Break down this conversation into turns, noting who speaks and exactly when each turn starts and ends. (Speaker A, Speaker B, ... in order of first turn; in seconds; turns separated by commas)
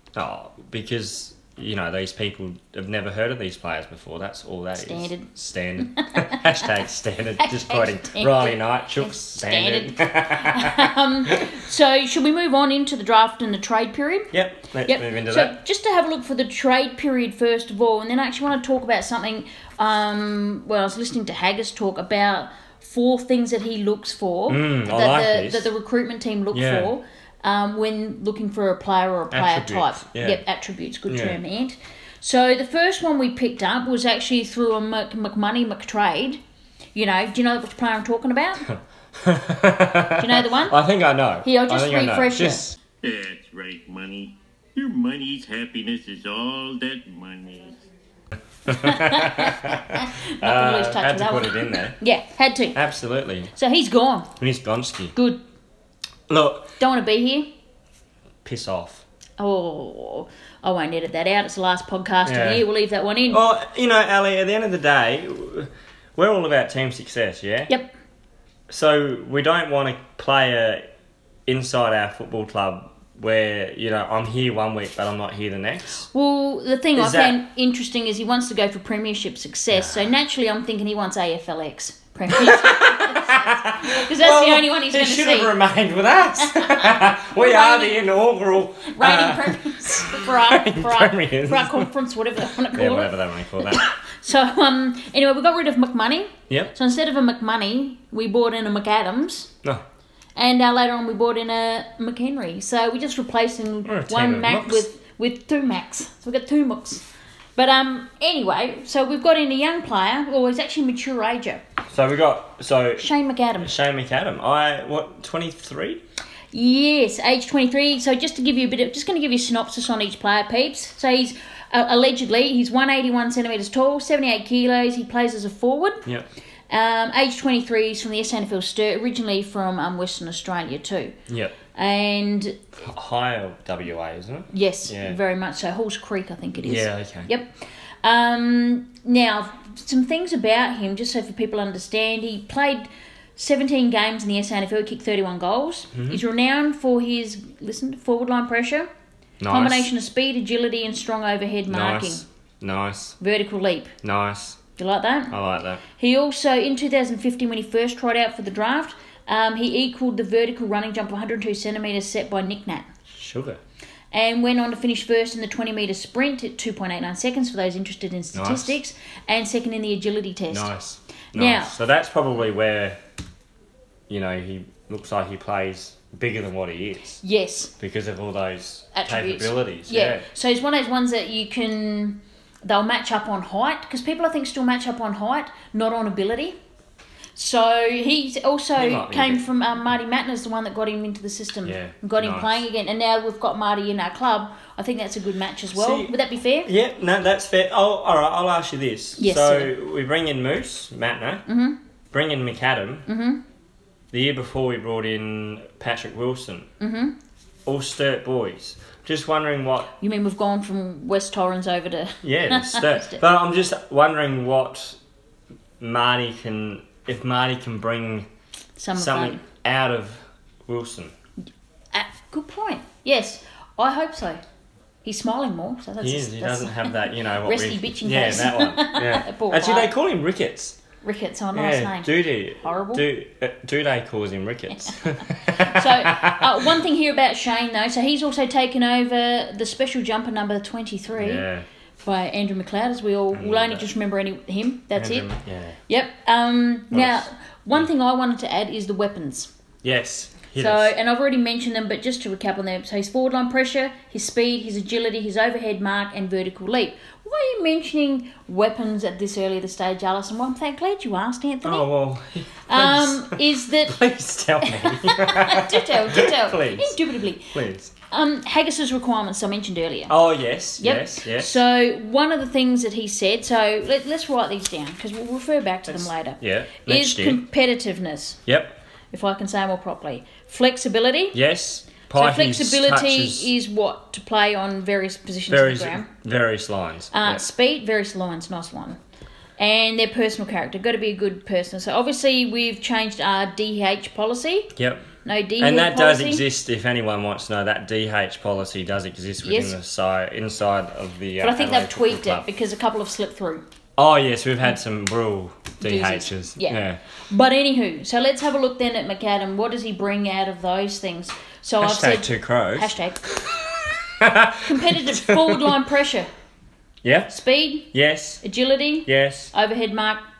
Speaker A: 0.1-11.5, Speaker B: 4.8-5.3, Speaker B: 5.9-6.7, Speaker B: 7.4-14.3, Speaker A: 14.3-15.6, Speaker B: 14.9-36.4, Speaker A: 24.5-25.7, Speaker A: 26.5-26.9, Speaker A: 29.3-30.4, Speaker A: 31.1-31.4, Speaker B: 37.0-38.7, Speaker A: 38.7-42.8, Speaker B: 40.2-40.8, Speaker B: 41.4-42.6, Speaker C: 43.0-47.8, Speaker A: 48.7-52.0, Speaker B: 48.7-52.8, Speaker A: 52.7-53.5, Speaker B: 53.5-54.3, Speaker A: 54.4-55.1, Speaker B: 55.1-55.4, Speaker A: 56.3-56.7, Speaker B: 56.8-57.5, Speaker A: 58.4-59.0, Speaker B: 59.4-63.4, Speaker A: 62.2-62.7, Speaker A: 63.3-67.7, Speaker A: 68.7-70.9, Speaker A: 71.5-76.1, Speaker B: 76.1-85.5, Speaker A: 77.0-77.4, Speaker A: 79.7-80.1, Speaker A: 82.3-91.9, Speaker B: 86.4-88.1, Speaker B: 88.9-99.5, Speaker A: 92.6-93.8, Speaker B: 100.4-107.0, Speaker A: 103.8-104.9, Speaker B: 107.6-111.6, Speaker A: 111.9-113.1, Speaker B: 113.0-113.7, Speaker A: 113.6-116.0, Speaker B: 116.5-126.0, Speaker B: 126.7-131.2, Speaker A: 131.3-131.6, Speaker B: 131.8-132.6, Speaker A: 132.8-135.2, Speaker B: 134.5-148.9, Speaker A: 136.6-137.3, Speaker A: 145.9-146.2, Speaker A: 149.4-149.9, Speaker B: 149.5-152.3, Speaker A: 151.7-153.2, Speaker B: 153.2-153.9, Speaker A: 154.0-154.6, Speaker B: 154.8-155.4, Speaker A: 155.3-155.8, Speaker B: 155.9-162.9, Speaker A: 163.1-163.6, Speaker B: 164.1-170.7, Speaker A: 168.3-168.8, Speaker A: 170.5-173.0, Speaker B: 171.3-171.7, Speaker A: 174.1-177.2, Speaker B: 177.2-177.7, Speaker A: 177.8-180.3, Speaker B: 178.9-186.6, Speaker B: 187.4-196.7, Speaker A: 188.8-189.4, Speaker A: 191.7-192.7, Speaker A: 195.8-196.1, Speaker A: 196.7-201.5, Speaker B: 199.2-199.7, Speaker B: 201.5-201.8, Speaker A: 202.1-203.1, Speaker B: 203.1-203.4, Speaker A: 204.1-206.7, Speaker B: 206.8-207.2, Speaker A: 207.7-209.9, Speaker B: 210.0-213.2, Speaker A: 212.2-215.0, Speaker A: 215.8-218.3, Speaker B: 218.8-219.4, Speaker A: 218.9-221.1, Speaker B: 221.9-224.4, Speaker B: 225.0-229.9, Speaker A: 226.0-230.8, Speaker B: 231.0-233.1, Speaker A: 231.5-236.7, Speaker B: 234.8-241.5, Speaker A: 241.2-241.7, Speaker B: 242.0-245.3, Speaker A: 243.3-243.9, Speaker A: 244.9-245.8, Speaker B: 245.9-249.5, Speaker A: 246.9-247.9, Speaker A: 249.8-250.9, Speaker B: 250.6-261.9, Speaker A: 261.6-267.0, Speaker B: 262.7-264.0, Speaker B: 264.6-267.6, Speaker A: 267.5-267.9, Speaker B: 268.1-270.1, Speaker A: 270.1-271.6, Speaker B: 270.8-278.4, Speaker A: 275.9-277.4, Speaker A: 278.5-278.8, Speaker B: 279.1-281.4, Speaker A: 281.3-283.5, Speaker B: 282.1-286.1, Speaker A: 285.5-287.4, Speaker B: 287.1-289.0, Speaker B: 289.6-294.7, Speaker A: 294.8-295.1, Speaker B: 295.2-296.4, Speaker A: 295.6-302.5, Speaker B: 299.4-299.8, Speaker B: 301.4-303.6, Speaker A: 304.0-307.0, Speaker B: 305.8-313.2, Speaker A: 311.8-315.8, Speaker B: 314.6-316.3, Speaker A: 317.0-317.3, Speaker B: 317.3-317.9, Speaker A: 317.9-318.4, Speaker B: 318.4-320.2, Speaker A: 319.1-319.5